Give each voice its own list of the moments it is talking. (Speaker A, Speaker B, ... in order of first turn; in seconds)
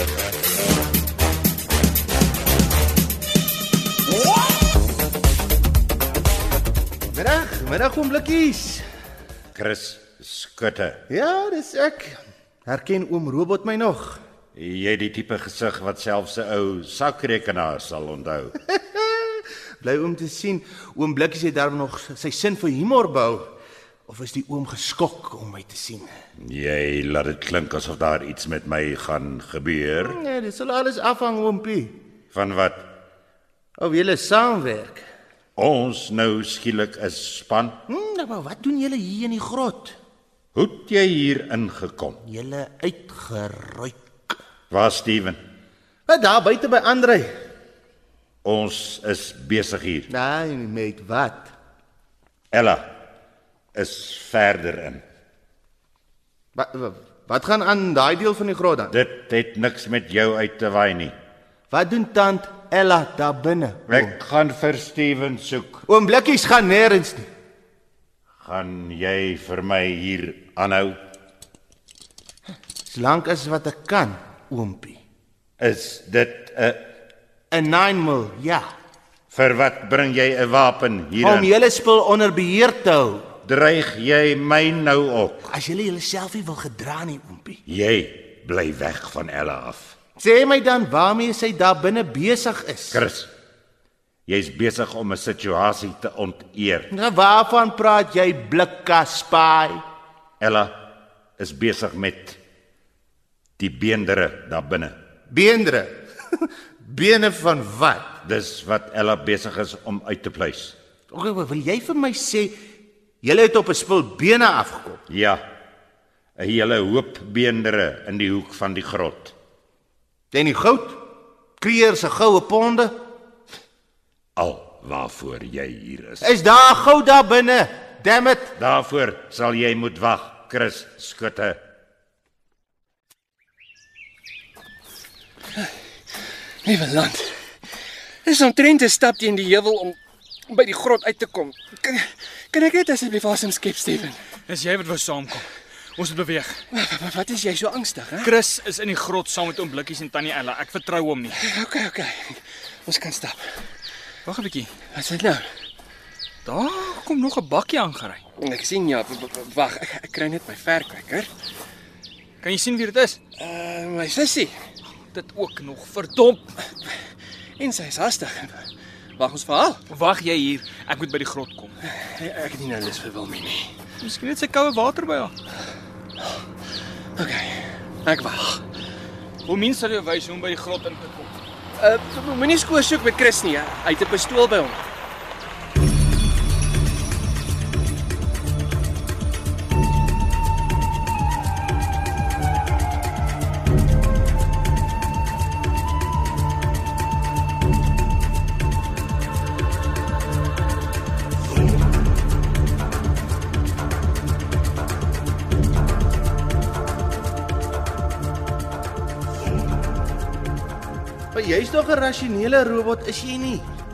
Speaker A: 7.1-8.8, 11.1-14.2, 18.7-23.5, 24.1-26.1, 30.0-31.9, 33.8-35.0, 37.9-40.0, 42.2-44.4, 46.1-47.3, 50.1-51.5, 56.5-58.9, 61.7-64.1, 65.9-67.3, 72.9-75.0, 77.5-78.6, 81.2-83.3, 85.5-87.6, 90.2-93.0, 96.9-99.8, 105.3-108.1, 111.1-112.5, 113.2-115.0, 120.3-121.0, 121.6-123.0, 126.2-128.5, 211.3-213.7
Speaker B: 9.5-11.0, 14.5-18.6, 26.4-30.2, 32.3-32.9, 35.5-37.8, 40.5-42.2, 44.7-45.4, 48.4-50.1, 52.5-52.9, 53.7-55.0, 58.9-61.1, 63.9-65.8, 68.4-71.0, 75.6-76.8, 79.3-81.5, 83.4-85.5, 87.7-89.9, 92.9-93.3, 94.3-96.9, 100.4-100.7, 101.4-102.4, 103.6-105.0, 108.2-110.8, 115.1-115.4, 116.4-119.3, 124.3-126.3, 128.6-131.6
Speaker C: 136.6-137.4, 138.2-140.0, 140.5-144.2, 146.7-148.3, 151.3-153.6, 154.9-155.5, 158.4-161.3, 163.4-164.6, 167.6-168.7, 169.2-169.8, 171.9-173.7, 177.2-178.6, 181.8-184.8
Speaker D: 144.4-146.6, 148.2-151.4, 154.2-154.7, 156.4-158.2, 162.4-163.2, 165.1-166.5, 169.9-171.8, 174.0-175.3, 179.4-181.4